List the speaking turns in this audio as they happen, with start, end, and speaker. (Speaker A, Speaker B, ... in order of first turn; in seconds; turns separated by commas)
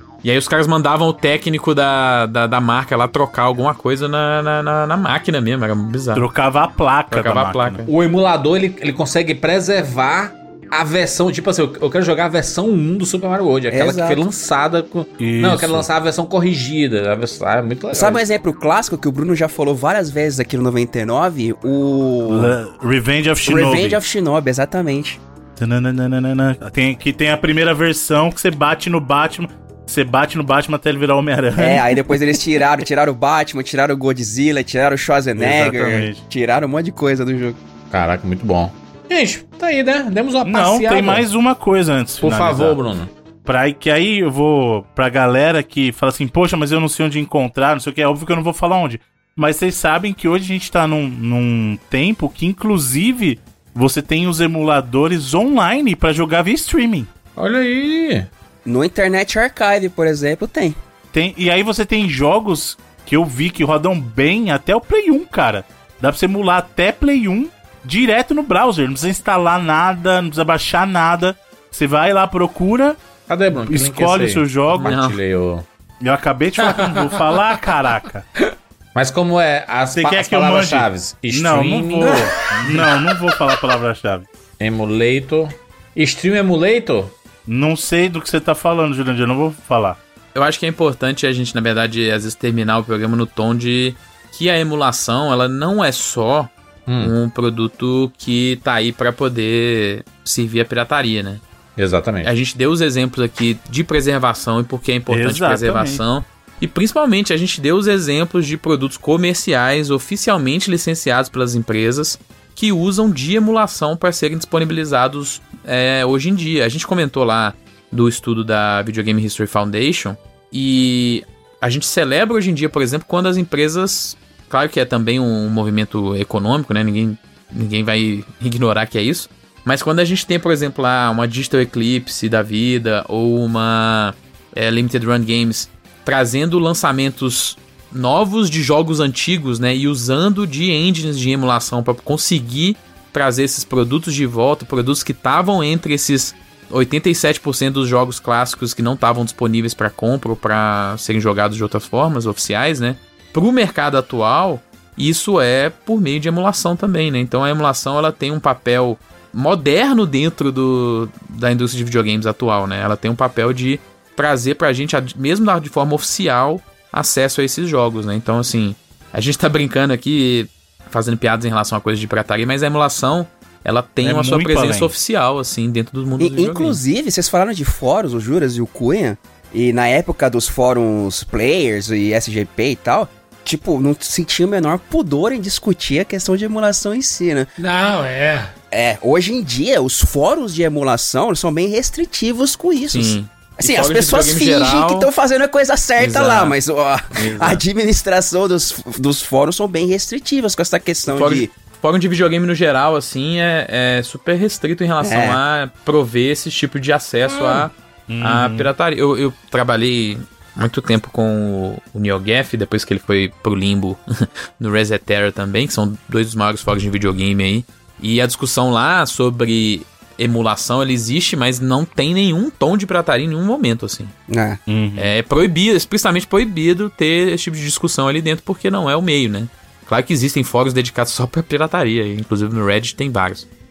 Speaker A: 0.2-6.2, Speaker B: 6.1-7.8, Speaker A: 7.1-7.9, Speaker C: 7.9-18.2, Speaker D: 13.7-14.2, Speaker B: 15.2-15.9, Speaker D: 17.9-22.5, Speaker B: 22.3-24.0, Speaker D: 23.4-25.2, Speaker B: 25.6-31.9, Speaker D: 31.6-37.6, Speaker B: 35.4-36.2, Speaker C: 37.9-41.2, Speaker B: 40.4-42.8, Speaker C: 42.2-43.1, Speaker B: 43.4-57.1, Speaker C: 57.4-58.3, Speaker D: 58.6-60.8, Speaker B: 61.1-73.0, Speaker C: 73.3-75.7, Speaker B: 73.7-74.9, Speaker A: 74.8-75.2, Speaker B: 76.0-78.2, Speaker E: 76.7-77.4, Speaker C: 78.9-82.9, Speaker B: 79.9-84.2, Speaker E: 82.0-83.0, Speaker C: 84.6-87.1, Speaker B: 87.5-90.0, Speaker A: 90.3-101.4, Speaker C: 96.9-97.1, Speaker C: 101.8-102.3, Speaker A: 102.2-176.8, Speaker B: 105.1-106.0, Speaker B: 174.0-174.9, Speaker D: 176.2-187.5, Speaker E: 187.6-188.5, Speaker D: 188.7-201.5, Speaker A: 192.9-195.1, Speaker A: 196.0-196.6, Speaker A: 197.1-197.6, Speaker A: 201.1-224.1, Speaker D: 205.0-205.4, Speaker B: 208.1-208.7, Speaker D: 224.3-224.6, Speaker B: 224.7-225.1, Speaker A: 225.0-233.5